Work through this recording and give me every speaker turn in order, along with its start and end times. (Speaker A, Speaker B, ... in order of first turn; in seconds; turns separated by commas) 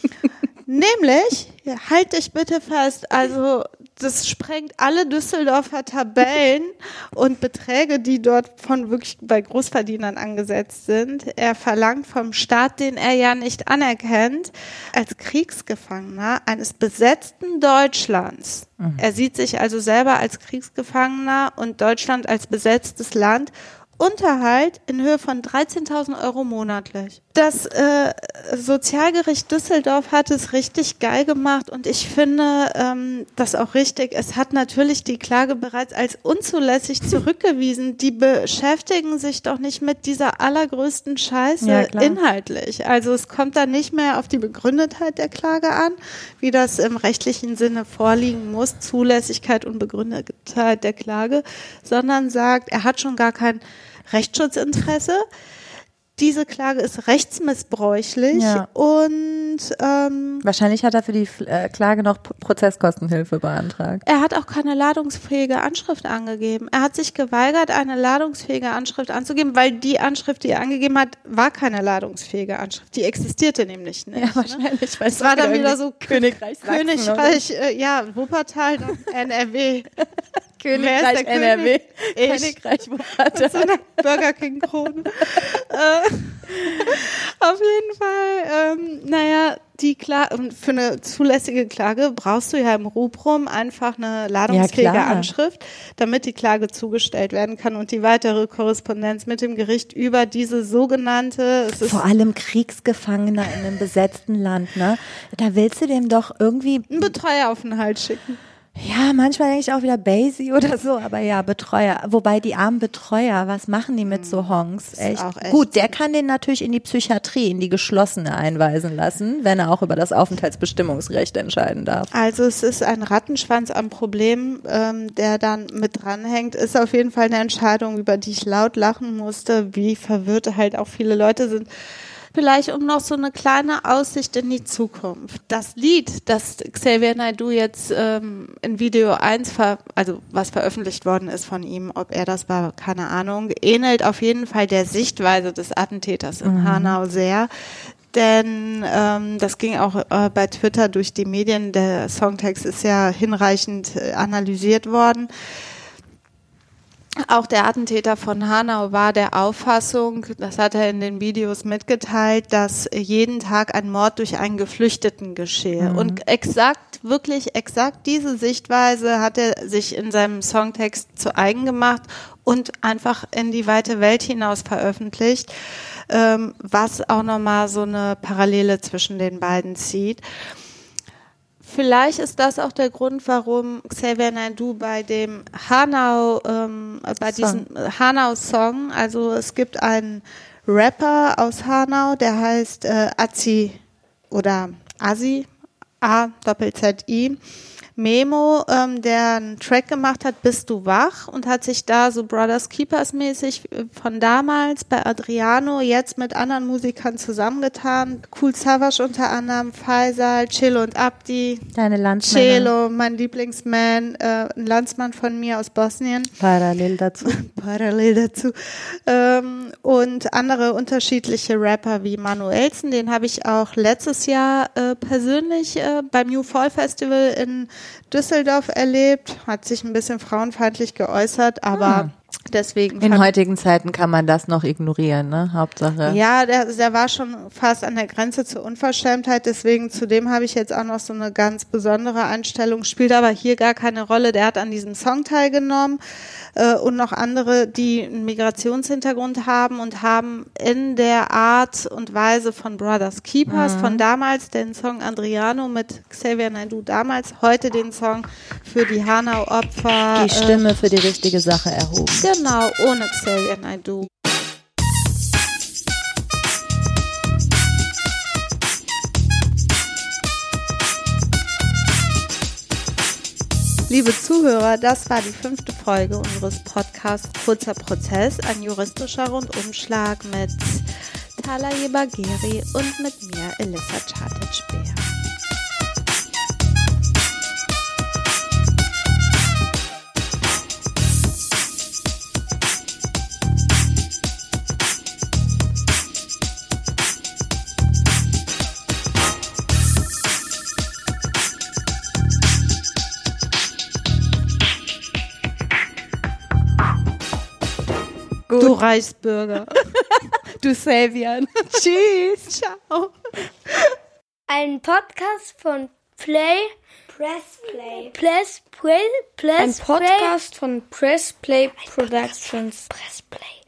Speaker A: 0.7-55.2, Speaker B: 41.6-42.2, Speaker A: 56.2-60.4, Speaker B: 58.3-58.7, Speaker B: 60.4-64.0, Speaker A: 64.0-74.6, Speaker B: 74.1-77.4, Speaker A: 75.1-79.9, Speaker A: 80.6-82.6, Speaker B: 80.7-84.2, Speaker A: 83.2-102.0, Speaker B: 85.2-85.6, Speaker B: 86.5-87.0, Speaker B: 94.5-95.3, Speaker B: 101.8-107.1, Speaker A: 106.9-108.4, Speaker B: 108.8-122.1, Speaker A: 114.0-115.9, Speaker A: 122.1-131.7, Speaker A: 132.3-147.5, Speaker B: 146.4-147.0, Speaker A: 148.1-155.3, Speaker A: 157.2-175.5, Speaker B: 165.8-166.2, Speaker A: 176.1-180.2, Speaker A: 181.6-193.8, Speaker B: 187.2-187.6, Speaker A: 194.3-195.5, Speaker A: 196.0-197.4, Speaker A: 198.0-211.7, Speaker B: 211.7-212.7, Speaker A: 212.3-216.3, Speaker B: 216.4-217.3, Speaker A: 217.2-233.3, Speaker B: 231.8-232.1, Speaker B: 233.0-236.2, Speaker A: 236.0-246.0, Speaker A: 246.6-260.6, Speaker B: 253.5-254.0, Speaker B: 260.1-262.3, Speaker A: 262.1-264.1, Speaker A: 273.9-280.9, Speaker A: 281.4-285.1, Speaker B: 308.5-308.8, Speaker A: 308.6-309.8, Speaker B: 310.6-312.4, Speaker A: 312.2-313.1, Speaker C: 314.5-320.3, Speaker D: 319.6-323.1, Speaker C: 322.9-323.4